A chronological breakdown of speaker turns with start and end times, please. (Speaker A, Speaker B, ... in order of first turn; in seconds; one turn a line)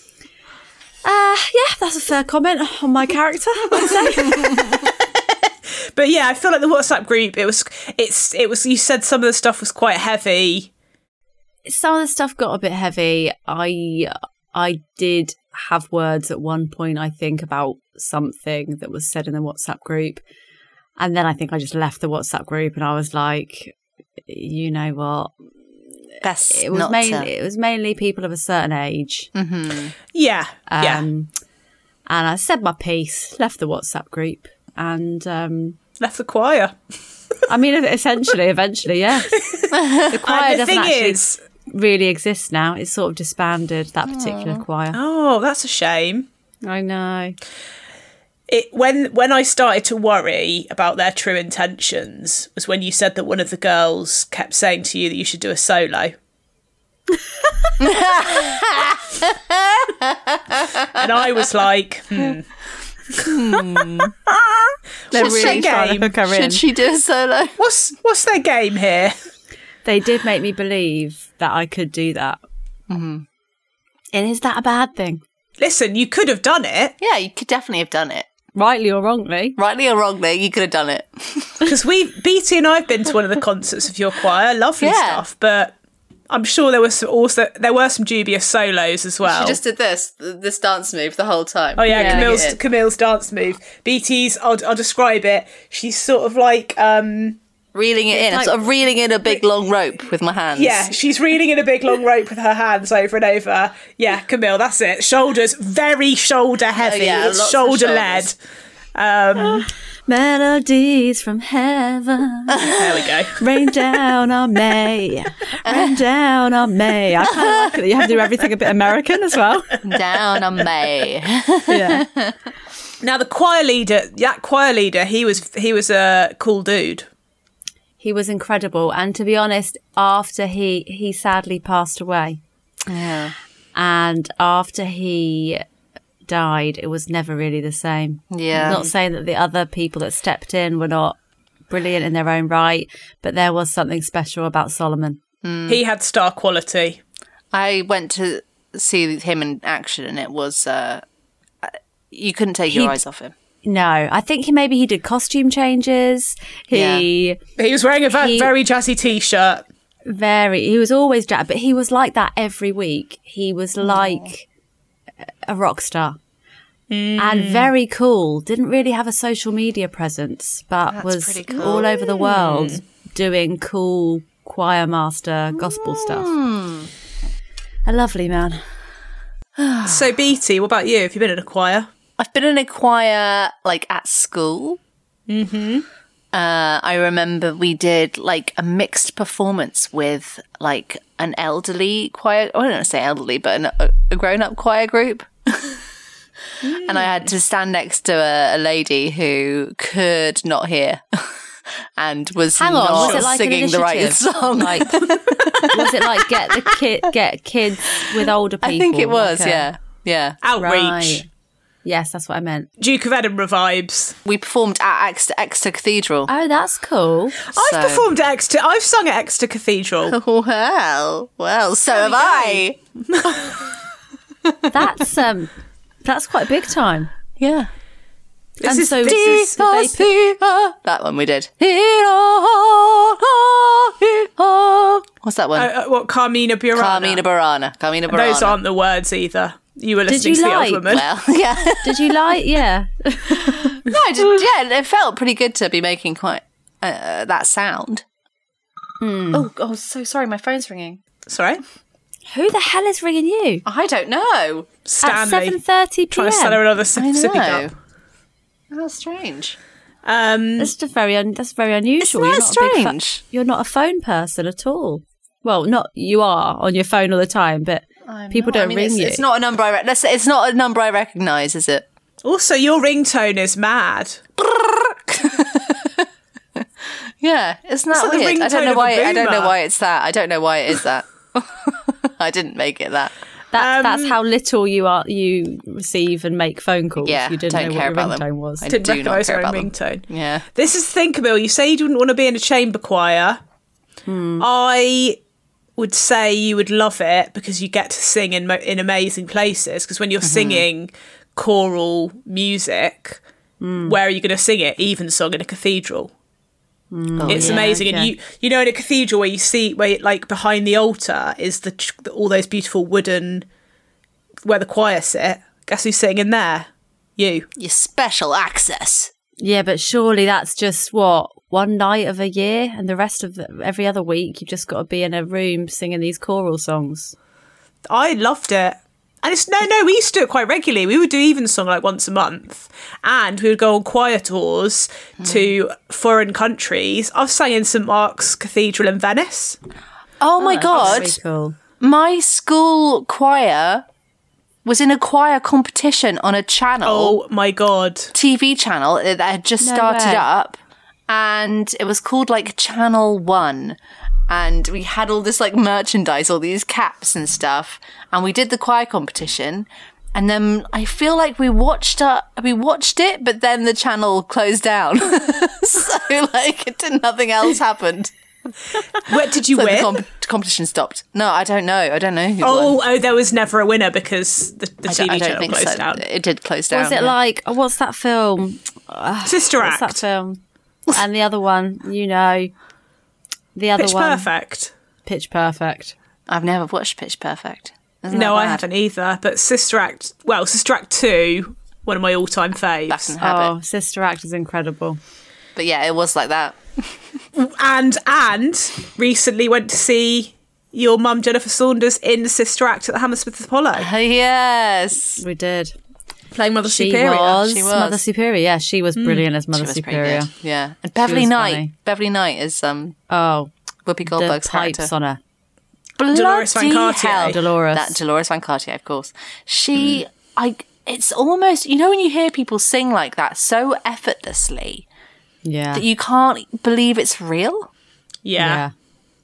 Speaker A: 1.1-4.8
Speaker B: 6.0-10.7
Speaker A: 11.6-20.2
Speaker A: 21.0-25.4
Speaker C: 26.2-27.3
Speaker A: 26.5-29.3
Speaker C: 29.4-29.9
Speaker B: 30.1-31.1
Speaker A: 30.7-31.3
Speaker A: 32.1-35.8
Speaker B: 36.0-36.7
Speaker A: 37.5-39.4
Speaker B: 39.3-41.4
Speaker C: 39.7-40.1
Speaker A: 40.0-45.0
Speaker C: 44.1-44.6
Speaker B: 44.9-46.3
Speaker A: 46.6-47.4
Speaker B: 48.5-56.2
Speaker C: 57.8-61.1
Speaker B: 60.9-62.5
Speaker B: 63.1-63.4
Speaker C: 63.2-64.1
Speaker B: 65.1-66.1
Speaker C: 65.1-67.6
Speaker A: 65.1-66.6
Speaker B: 67.6-69.2
Speaker A: 69.8-72.4
Speaker C: 72.9-73.2
Speaker A: 74.1-75.2
Speaker B: 75.6-77.0
Speaker C: 77.0-78.3
Speaker A: 78.5-79.6
Speaker C: 79.6-81.7
Speaker B: 81.6-85.8
Speaker C: 84.8-85.2
Speaker B: 86.3-89.6
Speaker C: 89.2-92.6
Speaker B: 91.8-97.4
Speaker A: 91.9-92.4
Speaker C: 97.7-100.9
Speaker A: 98.1-98.6
Speaker B: 100.5-108.3
Speaker C: 106.8-108.3
Speaker B: 108.9-109.7
Speaker A: 109.4-112.7
Speaker C: 112.5-113.0
Speaker B: 112.7-113.4
Speaker A: 113.4-119.8
Speaker C: 115.6-116.0
Speaker C: 117.3-117.7
Speaker C: 119.8-122.4
Speaker A: 121.7-122.1
Speaker B: 123.0-127.1
Speaker A: 128.0-132.4
Speaker C: 132.9-133.3
Speaker A: 133.8-135.6
Speaker A: 136.3-141.2
Speaker C: 138.3-138.8
Speaker B: 138.6-138.9
Speaker A: 141.7-145.2
Speaker C: 145.4-145.8
Speaker B: 145.7-147.0
Speaker C: 147.5-151.1
Speaker C: 151.6-153.3
Speaker A: 152.7-153.0
Speaker A: 153.6-157.4
Speaker C: 156.7-157.1
Speaker B: 157.6-159.7
Speaker A: 158.1-158.5
Speaker A: 160.1-164.4
Speaker C: 163.8-164.3
Speaker A: 165.3-166.2
Speaker B: 166.9-167.7
Speaker A: 167.2-176.3
Speaker C: 170.9-172.0
Speaker B: 172.1-172.8
Speaker C: 175.7-176.9
Speaker A: 177.9-178.6
Speaker C: 179.6-180.1
Speaker B: 179.8-181.9
Speaker C: 182.2-184.8
Speaker B: 185.3-185.9
Speaker C: 186.3-195.8
Speaker B: 196.6-197.3
Speaker C: 196.8-201.4
Speaker C: 202.0-206.7
Speaker A: 202.6-209.7
Speaker B: 202.9-203.2
Speaker C: 208.6-210.4
Speaker B: 210.4-211.2
Speaker A: 210.6-211.3
Speaker A: 211.8-212.7
Speaker B: 212.8-214.2
Speaker C: 214.2-216.3
Speaker A: 216.3-217.4
Speaker B: 217.4-220.2
Speaker C: 217.5-218.1
Speaker C: 220.1-223.6
Speaker B: 221.9-223.6
Speaker C: 224.4-224.7
Speaker A: 224.7-225.5
Speaker A: 226.0-227.1
Speaker C: 227.4-227.7
Speaker A: 228.6-230.1
Speaker B: 228.6-229.5
Speaker C: 229.0-235.7
Speaker B: 235.6-237.2
Speaker C: 236.8-238.6
Speaker B: 238.1-241.1
Speaker A: 240.1-240.9
Speaker C: 240.9-242.3
Speaker A: 241.8-243.8
Speaker C: 243.3-248.0
Speaker A: 249.0-249.5
Speaker C: 249.3-251.0
Speaker B: 251.3-251.6
Speaker A: 252.3-253.6
Speaker C: 253.6-254.7
Speaker B: 254.9-255.6
Speaker A: 255.0-256.6
Speaker B: 256.1-257.7
Speaker C: 256.9-257.7
Speaker C: 258.7-259.6
Speaker B: 260.1-260.7
Speaker A: 260.6-269.2
Speaker C: 262.0-263.2
Speaker C: 268.1-271.9
Speaker B: 272.2-274.2
Speaker C: 274.4-283.1
Speaker B: 277.9-279.6
Speaker A: 283.5-288.7
Speaker B: 283.6-284.1
Speaker C: 287.0-290.4
Speaker B: 288.7-293.4
Speaker A: 294.1-294.4
Speaker B: 294.4-295.2
Speaker B: 295.8-303.2
Speaker C: 300.2-300.7
Speaker A: 303.6-303.9
Speaker B: 303.9-306.1
Speaker A: 306.9-308.1
Speaker C: 307.2-307.7
Speaker B: 307.3-313.4
Speaker B: 314.4-317.4
Speaker C: 317.6-319.1
Speaker A: 319.4-327.1
Speaker B: 327.9-339.6
Speaker C: 335.2-335.5
Speaker C: 340.2-341.2
Speaker A: 340.4-341.6
Speaker B: 340.7-341.1
Speaker C: 341.8-343.9
Speaker C: 344.6-347.2
Speaker B: 346.8-348.1
Speaker C: 348.1-353.8
Speaker A: 349.6-350.3
Speaker C: 354.3-368.1
Speaker B: 369.0-370.0
Speaker C: 369.5-372.8
Speaker B: 372.4-376.0
Speaker C: 374.9-377.1
Speaker A: 376.7-380.4
Speaker B: 379.3-380.0
Speaker A: 380.9-382.5
Speaker A: 383.6-384.3
Speaker B: 383.8-384.7
Speaker A: 385.1-385.9
Speaker C: 386.3-388.6
Speaker B: 388.1-393.1
Speaker C: 392.9-393.5
Speaker A: 393.2-395.0
Speaker C: 395.6-397.0
Speaker B: 397.4-403.9
Speaker C: 403.7-405.2
Speaker A: 405.2-405.8
Speaker B: 406.3-407.4
Speaker A: 406.6-410.3
Speaker C: 407.3-408.0
Speaker B: 408.9-409.3
Speaker C: 409.5-413.0
Speaker A: 411.0-411.7
Speaker A: 413.1-413.5
Speaker C: 413.9-414.9
Speaker A: 414.1-415.2
Speaker C: 416.0-424.9
Speaker B: 416.1-417.4
Speaker A: 417.2-418.0
Speaker A: 425.4-425.9
Speaker C: 425.7-427.7
Speaker B: 428.2-428.6
Speaker A: 428.4-428.7